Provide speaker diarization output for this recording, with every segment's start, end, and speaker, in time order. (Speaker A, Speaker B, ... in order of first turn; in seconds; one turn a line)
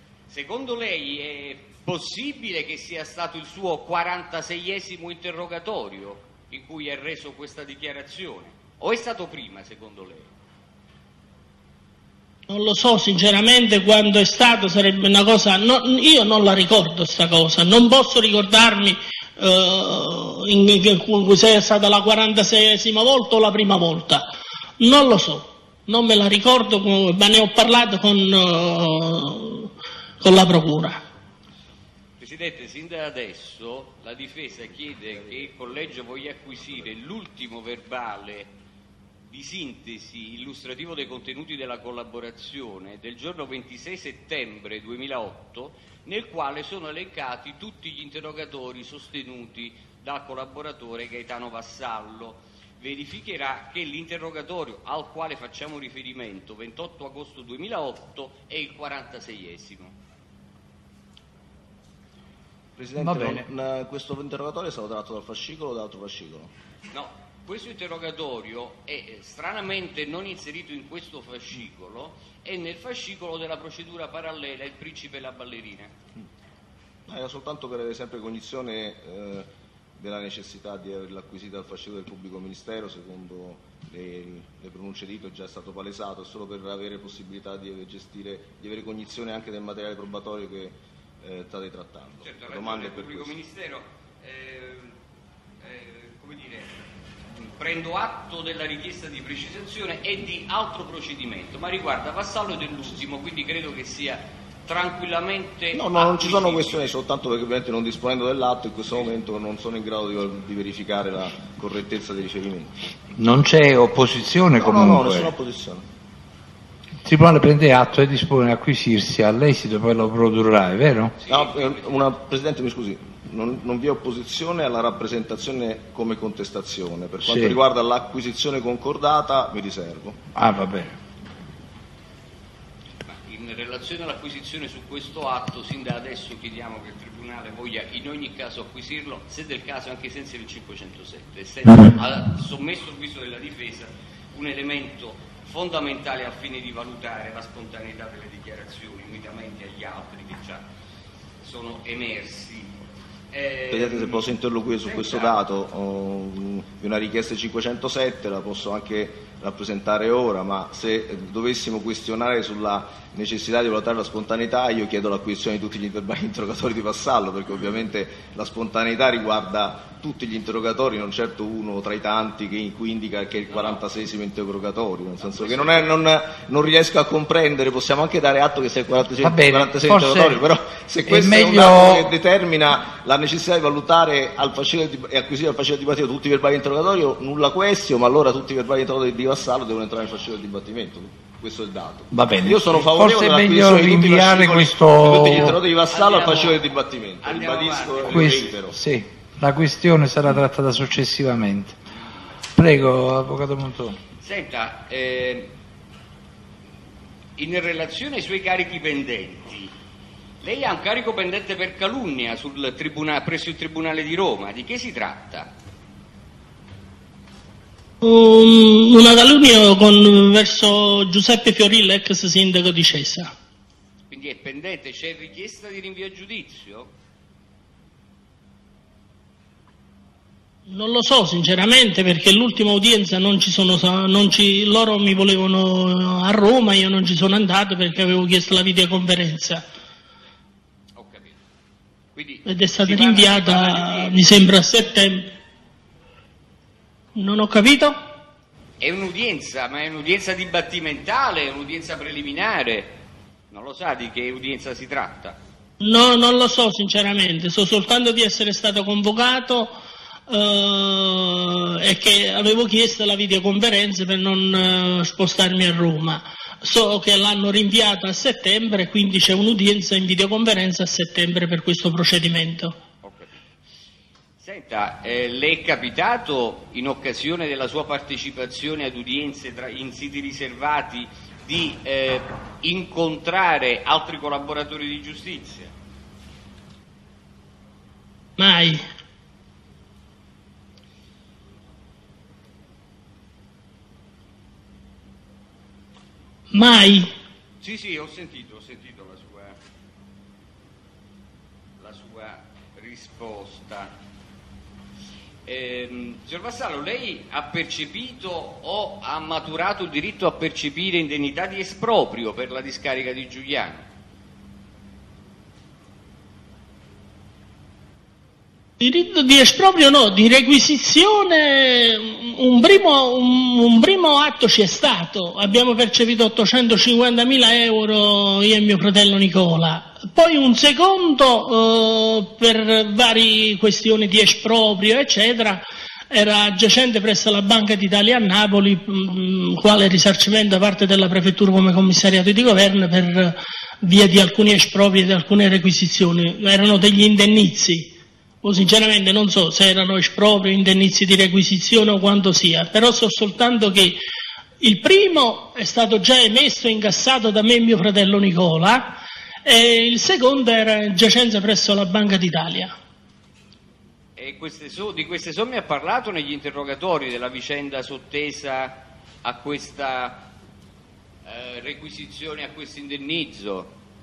Speaker A: 0.3-10.3
Speaker B: 12.5-24.3
Speaker B: 24.8-31.0
Speaker A: 32.2-38.5
Speaker A: 39.3-59.9
Speaker C: 62.8-66.5
Speaker D: 63.0-63.5
Speaker A: 66.9-75.9
Speaker C: 77.1-93.3
Speaker A: 92.2-95.0
Speaker A: 95.6-96.7
Speaker A: 97.3-106.9
Speaker C: 105.7-112.7
Speaker D: 113.2-115.3
Speaker C: 114.6-115.8
Speaker D: 117.0-121.2
Speaker A: 121.2-122.0
Speaker C: 121.3-130.2
Speaker D: 127.2-127.6
Speaker D: 130.3-130.9
Speaker A: 133.1-150.6
Speaker A: 151.4-152.8
Speaker A: 153.3-155.4
Speaker C: 153.7-198.8
Speaker A: 173.5-173.8
Speaker A: 175.3-176.0
Speaker D: 179.2-180.4
Speaker D: 181.0-182.1
Speaker D: 192.1-195.6
Speaker A: 195.2-196.7
Speaker A: 197.2-198.5
Speaker D: 198.1-201.8
Speaker D: 202.5-204.0
Speaker A: 204.2-205.5
Speaker A: 207.4-209.7
Speaker A: 210.4-215.5
Speaker B: 218.0-223.3
Speaker A: 224.1-226.9
Speaker B: 230.7-239.6
Speaker A: 240.9-241.4
Speaker A: 242.1-244.3
Speaker B: 242.4-245.3
Speaker B: 247.2-248.0
Speaker A: 248.8-253.0
Speaker A: 253.5-255.4
Speaker B: 255.8-259.7
Speaker B: 260.3-272.8
Speaker A: 273.0-273.4
Speaker A: 274.4-285.7
Speaker B: 288.4-288.8
Speaker B: 296.5-297.1
Speaker A: 297.6-299.6
Speaker A: 301.8-303.9
Speaker A: 305.4-313.9
Speaker B: 318.8-354.0
Speaker B: 354.6-362.7
Speaker A: 364.2-370.3
Speaker A: 371.2-373.7